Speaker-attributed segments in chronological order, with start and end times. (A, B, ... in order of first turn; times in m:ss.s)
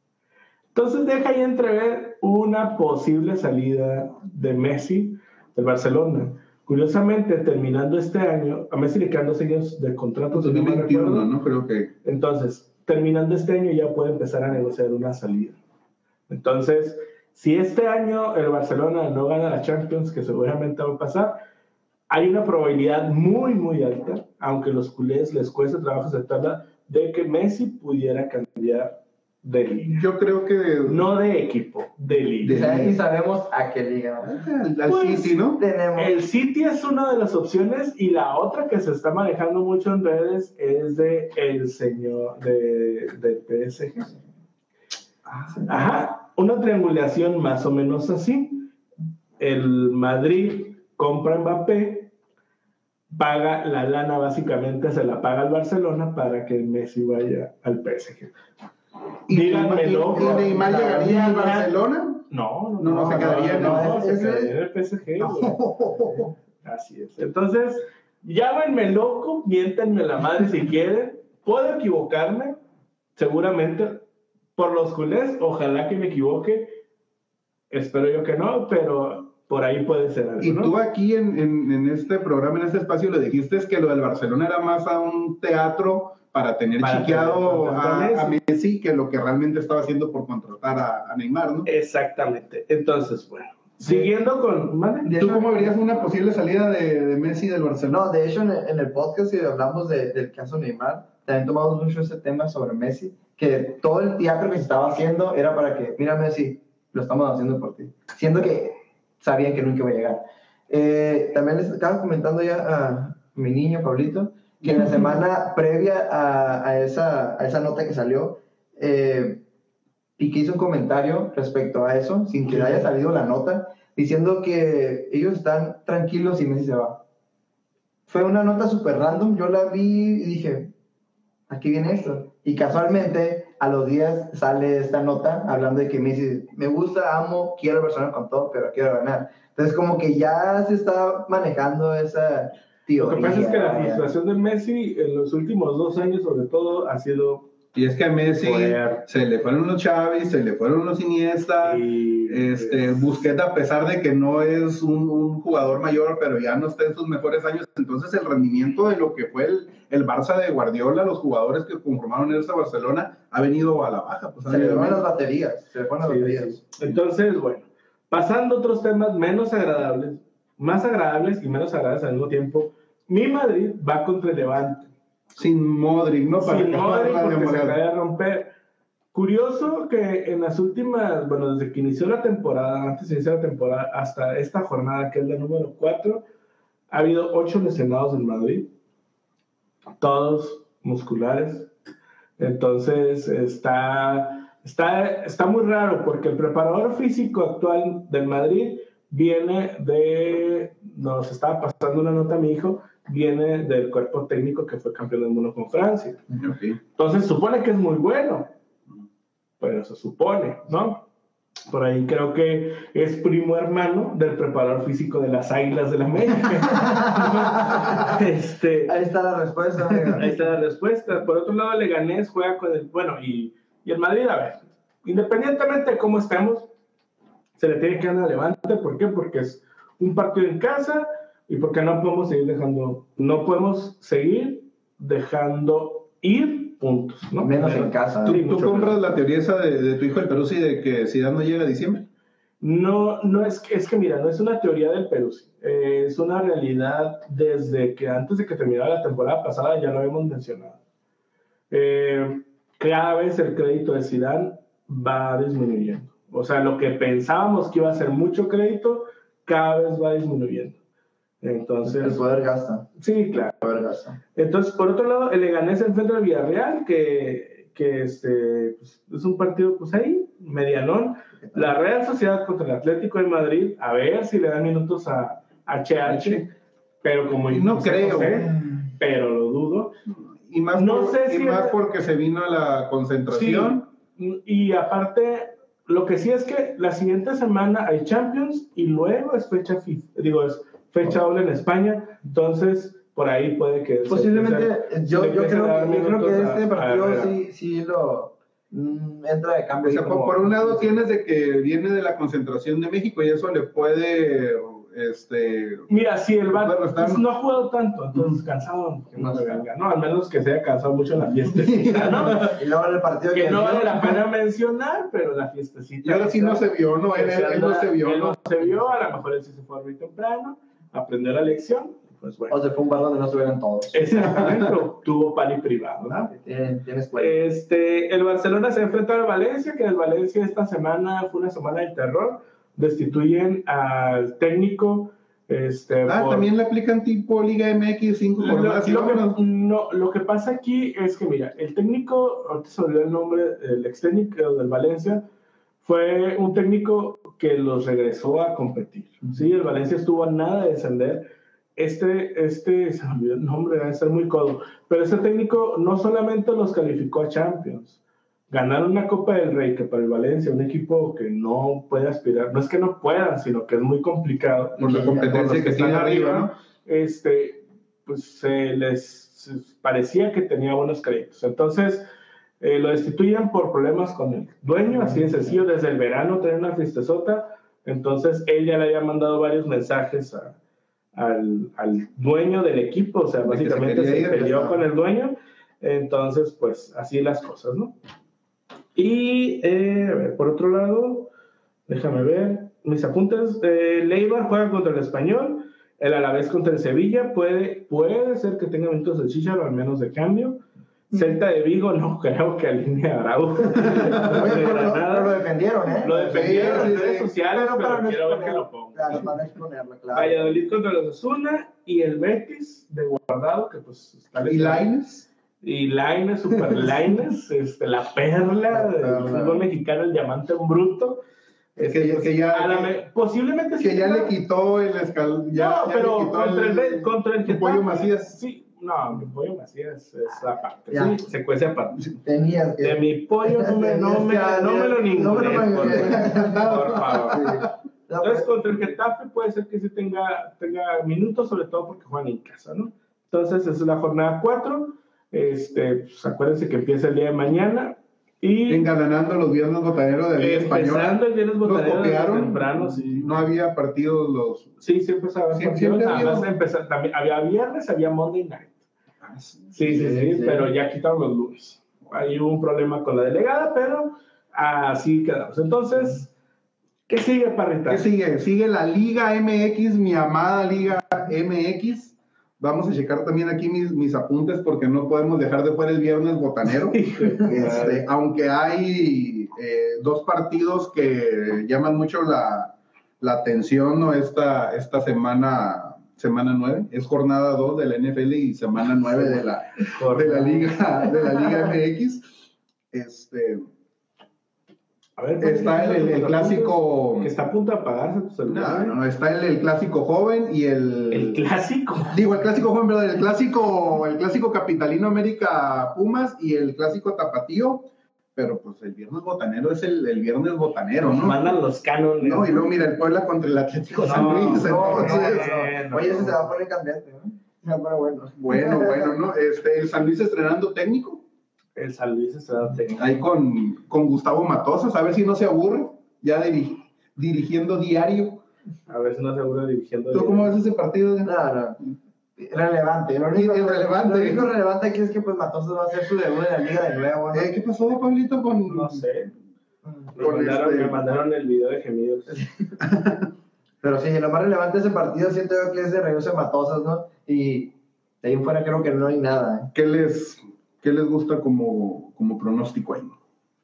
0:00.7-0:11.3 A
0:10.3-0:11.9 B
0:12.0-0:15.6 A
0:16.3-0:21.4 A
0:22.1-0:30.0 A
0:29.9-0:31.0 B
0:30.8-0:32.6 A
0:32.4-0:33.0 B
0:32.4-0:34.5 C
0:34.2-0:35.6 B
0:34.8-0:35.4 A
0:35.6-0:36.2 C
0:35.9-0:44.1 A
0:45.6-0:48.7 A
0:49.4-0:52.1 A
0:53.1-0:58.3 A
0:59.3-1:01.6 A
0:59.3-1:02.2 B
1:00.1-1:01.7 C
1:02.3-1:05.6 A
1:02.8-1:03.9 B
1:03.0-1:04.5 C
1:05.2-1:06.3 B
1:06.6-1:12.6 A
1:13.2-1:14.0 A
1:14.6-1:16.8 A
1:17.7-1:20.7 A
1:20.4-1:31.7 B
1:26.8-1:28.4 A
1:31.6-1:35.2 A
1:35.0-1:36.1 C
1:35.1-1:38.0 B
1:37.9-1:59.4 C
1:54.6-1:55.1 B
2:00.2-2:07.0 C
2:08.1-2:10.7 C
2:11.5-2:24.1 C
2:23.0-2:27.5 A
2:27.7-2:45.0 B
2:28.4-2:29.0 A
2:31.6-2:33.1 A
2:44.5-2:46.6 C
2:46.0-2:54.9 A
2:55.4-2:57.8 B
2:56.4-2:58.5 A
2:59.1-3:06.2 A
3:06.9-3:08.7 A
3:10.0-3:11.7 A
3:12.4-3:26.2 A
3:26.4-3:26.8 B
3:27.0-3:28.5 A
3:29.6-3:31.0 A
3:31.7-3:38.9 A
3:36.8-3:38.2 C
3:38.9-3:40.4 C
3:40.1-3:46.7 A
3:47.6-3:59.0 A
3:57.4-3:58.4 C
3:58.2-4:02.1 B
4:02.6-4:10.8 A
4:11.7-4:20.8 A
4:21.4-4:22.2 A
4:21.8-4:22.9 C
4:23.0-4:23.5 A
4:23.6-4:24.2 C
4:24.4-4:36.4 A
4:31.4-4:31.7 C
4:36.0-4:36.4 B
4:37.0-4:40.0 A
4:37.5-4:38.5 B
4:40.1-4:43.8 B
4:40.7-4:41.8 A
4:43.3-4:57.3 A
4:54.1-5:01.0 C
4:59.8-5:05.9 B
5:05.9-5:12.6 A
5:06.5-5:07.2 B
5:09.1-5:09.6 C
5:11.7-5:12.1 B
5:12.0-5:14.2 C
5:13.3-5:22.6 A
5:16.0-5:18.5 B
5:22.5-5:24.6 C
5:23.9-5:26.3 A
5:26.1-5:27.4 C
5:27.1-5:36.5 A
5:36.1-5:39.4 B
5:38.4-5:45.2 A
5:45.8-5:58.0 A
5:58.5-6:12.0 A
6:04.8-6:06.5 B
6:04.9-6:05.2 C
6:12.6-6:20.6 A
6:14.9-6:15.6 C
6:21.1-6:27.9 A
6:23.4-6:24.5 B
6:24.3-6:24.8 C
6:29.0-6:31.3 A
6:31.9-6:45.4 A
6:43.8-6:50.6 C
6:43.8-6:44.4 B
6:46.0-6:49.3 A
6:46.3-6:47.3 B
6:50.1-6:54.9 A
6:54.4-6:55.3 B
6:55.6-7:01.2 A
6:56.6-6:57.0 B
6:58.7-6:59.6 C
7:01.8-7:04.3 A
7:01.8-7:03.0 B
7:03.8-7:08.4 B
7:05.5-7:12.1 A
7:10.9-7:11.2 C
7:12.2-7:18.5 C
7:12.8-7:17.6 A
7:15.8-7:17.7 B
7:18.2-7:28.9 A
7:28.7-7:34.7 B
7:30.4-7:33.4 A
7:34.8-7:38.8 A
7:35.5-7:36.5 B
7:39.2-7:40.1 B
7:39.7-7:46.3 A
7:39.8-7:40.7 C
7:47.1-7:48.1 A
7:47.9-8:12.4 B
7:56.7-7:58.0 A
7:57.5-7:57.8 C
8:09.1-8:09.4 A
8:09.9-8:10.7 A
8:12.9-8:13.6 B
8:15.2-8:19.0 A
8:15.4-8:17.3 B
8:18.5-8:21.4 B
8:21.1-8:22.2 A
8:22.1-8:31.5 B
8:31.0-8:32.7 A
8:32.2-8:35.5 B
8:33.9-8:36.5 A
8:34.1-8:39.2 C
8:38.4-8:41.2 B
8:41.8-8:43.2 A
8:42.9-8:48.4 B
8:48.9-8:50.6 A
8:50.1-8:51.3 B
8:51.2-8:51.8 C
8:52.4-8:57.5 C
8:53.3-8:54.5 B
8:57.3-8:59.0 B
8:58.7-8:59.3 A
9:00.1-9:02.5 A
9:00.2-9:01.0 B
9:02.8-9:03.3 B
9:03.8-9:09.7 C
9:09.7-9:13.1 B